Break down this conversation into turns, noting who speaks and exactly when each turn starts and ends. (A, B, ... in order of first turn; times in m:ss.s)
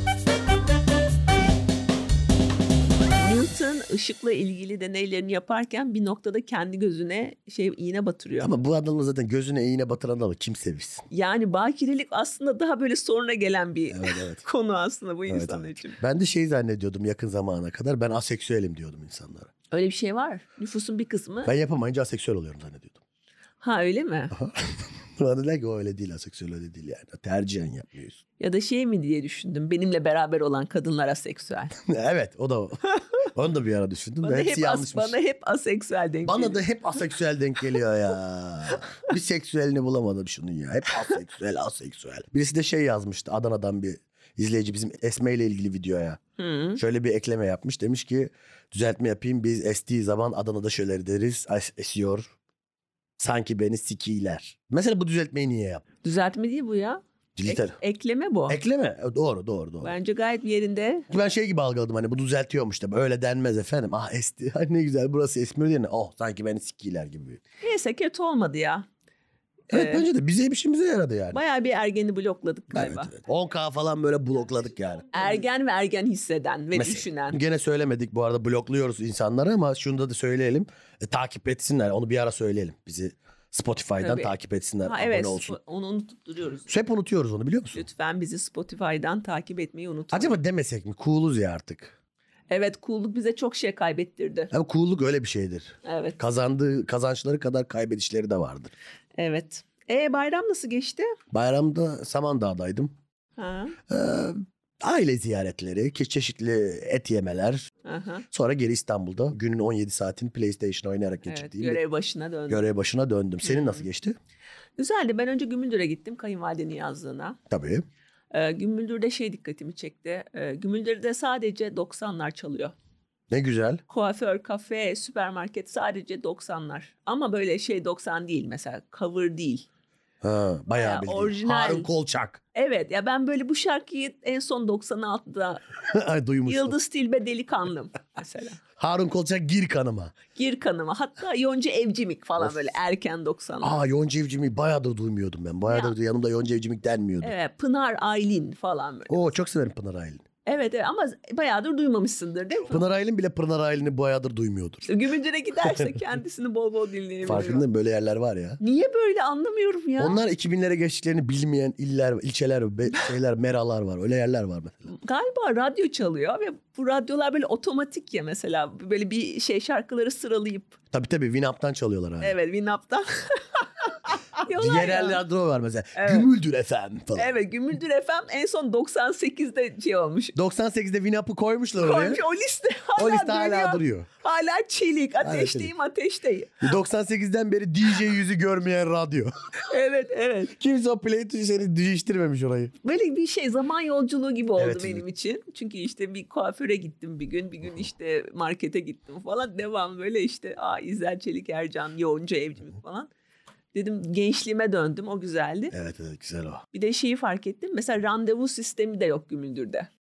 0:03.2-0:08.5 A
0:08.4-0:11.0 B
0:11.1-0:16.0 A
0:13.9-0:14.4 B
0:15.3-0:19.5 B
0:19.7-0:21.5 A
0:21.4-0:23.0 B
0:23.6-0:24.3 A
0:24.3-0:28.2 B
0:28.4-0:31.7 A
0:31.7-0:35.2 B
0:34.2-0:36.6 A
0:36.2-0:46.2 B
0:46.4-0:46.8 A
0:46.8-0:52.3 B
0:53.2-0:55.8 B
0:56.0-0:58.6 A
0:57.4-0:57.8 B
0:58.5-0:59.9 B
0:59.8-1:01.0 A
1:01.1-1:07.4 B
1:07.6-1:08.8 A
1:09.7-1:10.0 A
1:09.7-1:11.4 B
1:11.3-1:13.1 A
1:12.7-1:15.4 B
1:15.1-1:17.4 A
1:16.7-1:25.6 B
1:24.0-1:24.3 A
1:24.8-1:26.7 A
1:26.7-1:27.8 B
1:27.7-1:30.4 A
1:30.1-1:31.9 B
1:32.5-1:34.5 A
1:34.5-1:38.7 B
1:35.8-1:36.2 A
1:39.2-1:41.1 A
1:41.3-1:42.9 B
1:43.4-1:43.8 A
1:43.9-1:47.7 B
1:47.8-1:48.2 A
1:48.3-1:51.8 B
1:51.2-1:52.6 A
1:52.5-1:54.2 B
1:53.4-1:53.8 A
1:54.8-1:57.4 A
1:57.5-1:57.8 B
1:58.3-2:02.7 A
2:03.3-2:03.8 B
2:03.9-2:09.6 A
2:10.2-2:12.4 B
2:10.7-2:11.9 A
2:12.5-2:15.6 A
2:15.9-2:16.8 B
2:16.4-2:18.6 A
2:18.8-2:20.2 B
2:20.3-2:23.8 A
2:23.6-2:27.3 B
2:25.7-2:25.9 A
2:27.2-2:29.3 A
2:29.1-2:30.2 B
2:30.4-2:32.8 A
2:32.7-2:34.9 B
2:34.8-2:37.6 A
2:37.2-2:38.6 B
2:38.6-2:40.2 A
2:40.0-2:44.9 B
2:44.9-2:50.8 A
2:50.9-2:52.4 B
2:52.2-2:55.2 A
2:54.5-2:57.4 B
2:55.9-2:56.3 A
2:57.1-3:00.4 A
3:00.3-3:02.2 B
3:01.8-3:06.6 A
3:03.0-3:04.1 B
3:05.2-3:05.7 B
3:06.6-3:09.3 B
3:09.7-3:10.5 A
3:10.5-3:12.7 B
3:12.8-3:23.1 A
3:14.6-3:15.0 B
3:23.7-3:25.7 A
3:25.7-3:26.6 B
3:26.7-3:29.9 A